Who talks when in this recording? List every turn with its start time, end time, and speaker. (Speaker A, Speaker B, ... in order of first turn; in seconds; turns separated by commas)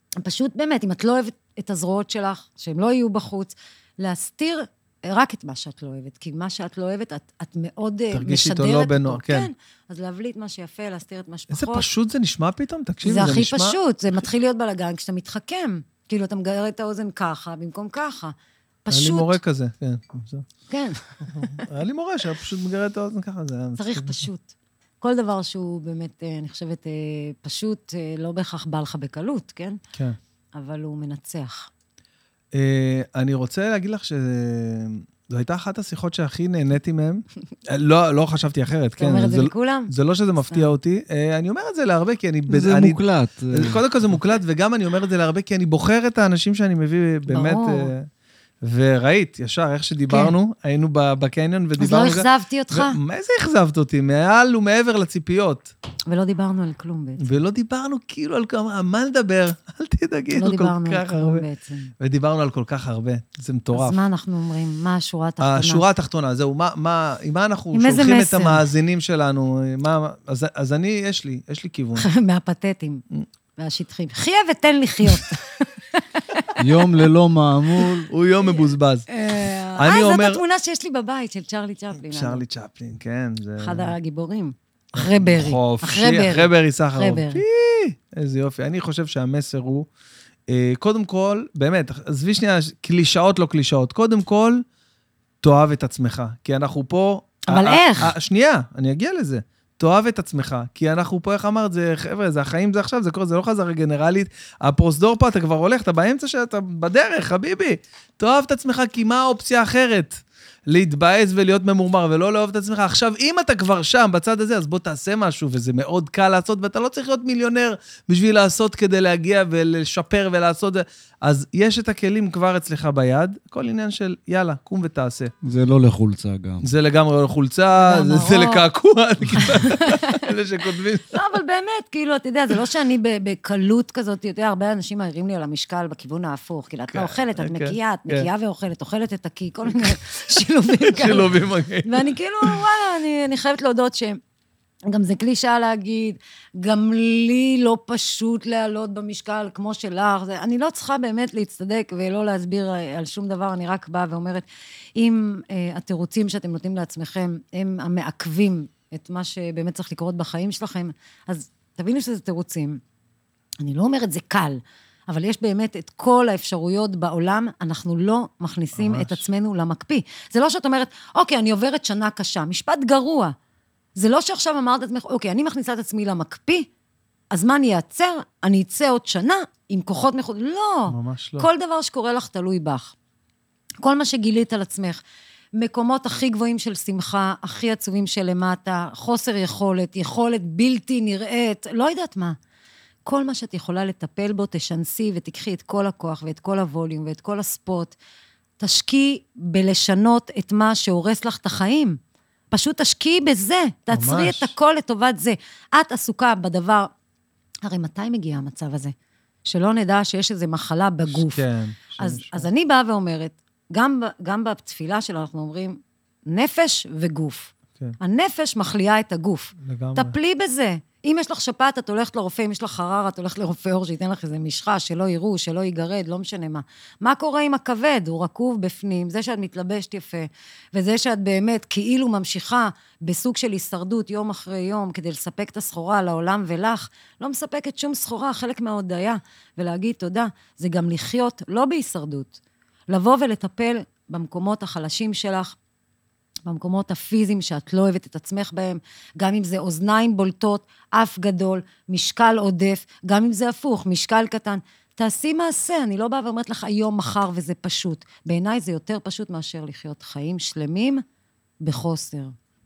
Speaker A: 0.2-11.9, Speaker B: 8.1-9.5, Speaker B: 11.5-13.8, Speaker A: 13.0-19.4, Speaker B: 18.9-20.5, Speaker A: 20.7-21.6, Speaker B: 21.3-24.3, Speaker A: 23.8-29.8, Speaker A: 30.6-31.7, Speaker B: 32.5-43.0, Speaker A: 39.0-39.9, Speaker A: 40.5-40.7, Speaker C: 42.5-44.2, Speaker B: 43.5-48.1, Speaker A: 47.3-47.9, Speaker B: 48.6-55.7, Speaker A: 50.1-50.3, Speaker A: 51.8-53.0, Speaker A: 56.1-57.3, Speaker B: 57.2-61.5, Speaker A: 60.3-61.9, Speaker B: 62.0-64.0, Speaker A: 63.7-65.8, Speaker B: 65.4-72.1, Speaker A: 67.7-68.6, Speaker A: 72.0-73.0, Speaker A: 73.6-76.6, Speaker C: 76.6-78.1, Speaker B: 78.1-80.4, Speaker A: 78.4-82.4, Speaker B: 82.1-83.9, Speaker A: 83.6-87.4, Speaker B: 85.0-89.9, Speaker B: 90.5-94.6, Speaker B: 95.4-125.3, Speaker A: 97.5-98.1, Speaker C: 125.4-126.7, Speaker B: 126.6-131.2, Speaker A: 127.8-128.6, Speaker A: 129.4-130.3, Speaker A: 131.1-144.2, Speaker B: 136.9-138.3, Speaker B: 140.9-142.6, Speaker A: 144.9-162.8, Speaker A: 163.6-173.3, Speaker B: 168.8-169.2, Speaker A: 174.0-176.7, Speaker A: 177.3-183.0, Speaker B: 180.9-181.5, Speaker A: 183.8-185.0, Speaker A: 185.6-192.4, Speaker A: 193.1-198.0, Speaker A: 198.6-202.0, Speaker A: 202.5-206.9, Speaker B: 203.9-204.5, Speaker A: 207.6-208.9, Speaker A: 209.5-211.4, Speaker B: 211.1-212.5, Speaker A: 212.0-242.4, Speaker B: 219.6-220.2, Speaker A: 242.9-245.6, Speaker A: 246.4-261.0, Speaker A: 261.6-262.3